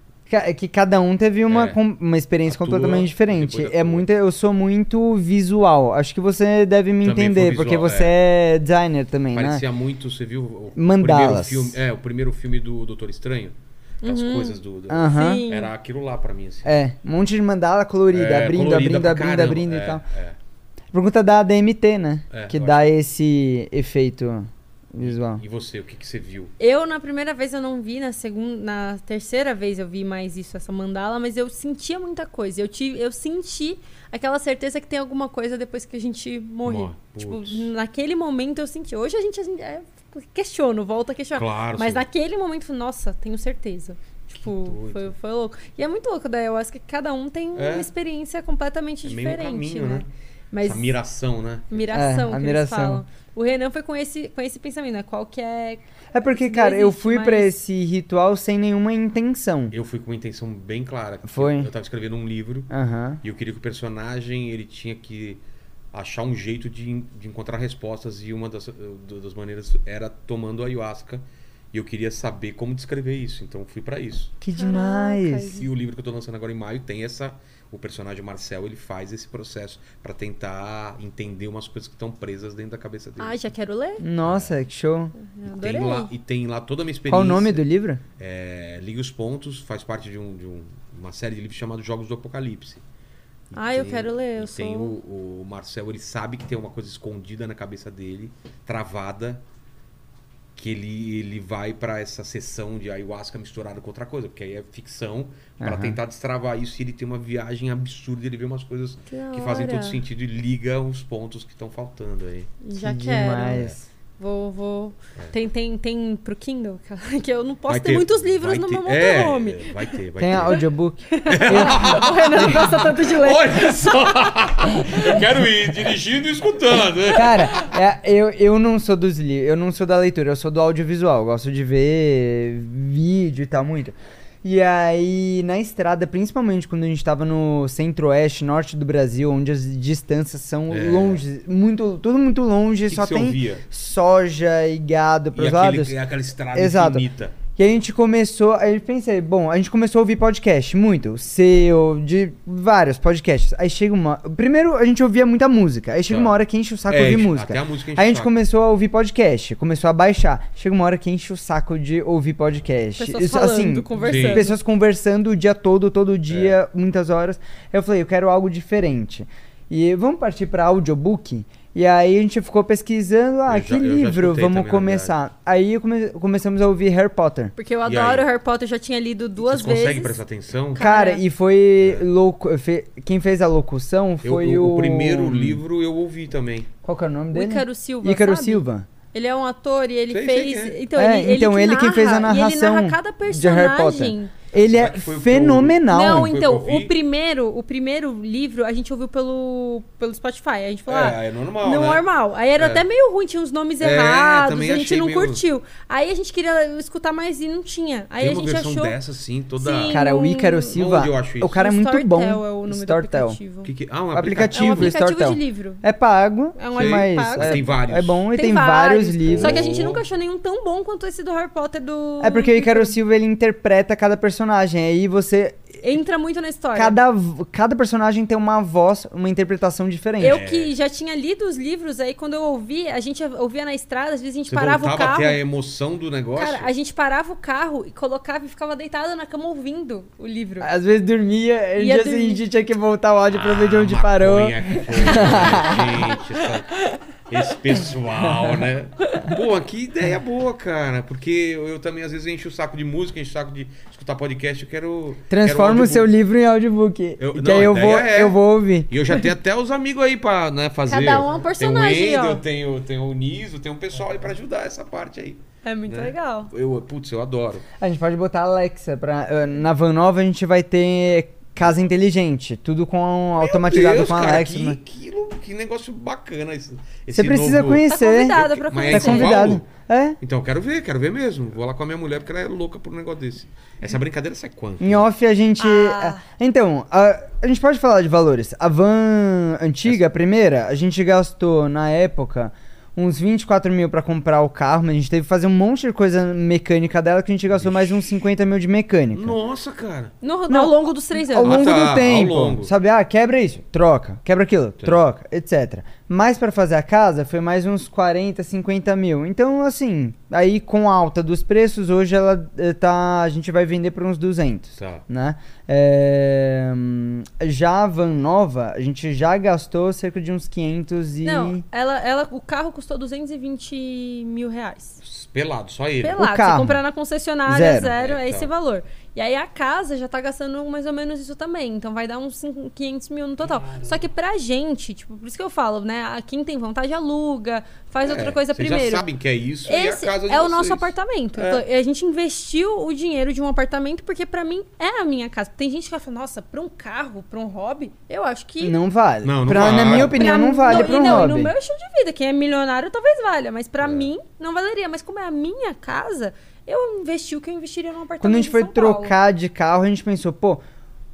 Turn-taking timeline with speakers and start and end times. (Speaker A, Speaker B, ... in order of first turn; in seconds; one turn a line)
Speaker A: 0.3-9.6
Speaker B: 1.5-1.8
Speaker B: 2.5-4.1
Speaker B: 7.0-8.2
Speaker B: 9.3-16.8
Speaker A: 10.8-11.8
Speaker C: 14.0-15.7
Speaker A: 14.9-15.4
Speaker A: 16.6-20.0
Speaker B: 18.1-20.4
Speaker A: 20.9-25.4
Speaker B: 22.3-22.9
Speaker B: 25.0-26.5
Speaker C: 26.6-51.0
Speaker B: 36.6-37.7
Speaker B: 41.4-42.0
Speaker B: 44.4-45.1
Speaker B: 47.6-47.9
Speaker B: 49.0-50.1
Speaker B: 50.6-52.1
Speaker C: 51.7-57.5
Speaker A: 51.9-53.0
Speaker A: 56.1-59.7
Speaker B: 59.7-62.7
Speaker A: 61.3-61.7
Speaker A: 62.7-63.2
Speaker B: 63.2-65.4
Speaker B: 65.9-74.3
Speaker A: 74.4-75.6
Speaker C: 74.6-75.7
Speaker B: 75.6-83.4
Speaker C: 83.2-84.0
Speaker A: 84.0-85.1
Speaker B: 84.2-84.5
Speaker C: 85.2-86.1
Speaker B: 85.5-87.6
Speaker A: 87.1-88.0
Speaker B: 88.2-92.8
Speaker B: 93.5-99.4
Speaker C: 93.5-94.9
Speaker B: 100.5-112.5
Speaker A: 105.6-106.0
Speaker C: 109.1-110.0
Speaker C: 112.6-120.0
Speaker A: 112.8-113.9
Speaker B: 117.7-120.6
Speaker A: 120.2-122.6
Speaker C: 121.1-123.9
Speaker B: 121.3-127.8
Speaker A: 127.1-145.9
Speaker B: 140.7-141.2
Speaker B: 142.9-143.6
Speaker B: 145.3-147.4
Speaker A: 146.6-147.1
Speaker A: 147.6-177.5
Speaker B: 156.1-156.3
Speaker B: 156.9-158.3
Speaker C: 163.0-164.6
Speaker B: 164.0-164.5
Speaker B: 166.3-166.6
Speaker B: 173.5-175.2
Speaker C: 177.6-180.2
Speaker B: 177.8-178.3
Speaker B: 179.4-180.9
Speaker C: 180.8-181.2
Speaker A: 180.8-185.6
Speaker B: 181.8-182.1
Speaker B: 184.2-186.7
Speaker A: 186.8-188.9
Speaker C: 187.3-194.3
Speaker B: 190.1-190.8
Speaker A: 191.0-196.3
Speaker B: 194.6-196.9
Speaker C: 195.9-209.0
Speaker B: 200.9-202.0
Speaker B: 202.6-202.8
Speaker B: 203.8-205.4
Speaker B: 208.2-209.9
Speaker C: 209.6-210.8
Speaker A: 209.9-213.4
Speaker B: 210.7-211.6
Speaker C: 211.6-213.7
Speaker B: 213.7-215.0
Speaker A: 214.1-219.8
Speaker C: 214.5-215.8
Speaker C: 216.6-217.6
Speaker B: 216.7-218.2
Speaker C: 218.3-223.0
Speaker B: 219.3-220.0
Speaker A: 222.2-225.6
Speaker C: 225.8-227.0
Speaker A: 226.8-230.4
Speaker C: 230.2-235.4
Speaker B: 230.2-230.7
Speaker B: 234.5-236.7
Speaker C: 236.4-240.7
Speaker A: 240.6-245.9
Speaker C: 241.8-242.4
Speaker B: 243.3-256.1
Speaker C: 245.1-247.0
Speaker C: 249.0-249.3
Speaker A: 255.3-259.1
Speaker B: 257.2-267.7
Speaker C: 260.9-262.4
Speaker C: 265.6-266.5
Speaker A: 267.8-274.8
Speaker B: 273.4-279.7
Speaker A: 277.1-280.2
Speaker C: 277.9-279.4
Speaker B: 280.2-285.1
Speaker A: 284.8-299.4
Speaker C: 285.6-286.2
Speaker B: 297.5-297.9
Speaker B: 299.1-300.1
Speaker C: 300.2-301.6
Speaker A: 300.5-321.6
Speaker B: 301.4-302.7
Speaker B: 314.8-315.0
Speaker C: 321.2-325.0
Speaker B: 325.0-326.2
Speaker C: 326.0-339.1
Speaker A: 326.2-326.8
Speaker A: 327.5-327.9
Speaker B: 328.0-328.5
Speaker B: 338.0-341.6
Speaker C: 339.7-348.8
Speaker A: 348.6-351.5
Speaker B: 349.2-351.2
Speaker C: 349.9-359.1
Speaker B: 353.8-354.1
Speaker A: 358.2-360.6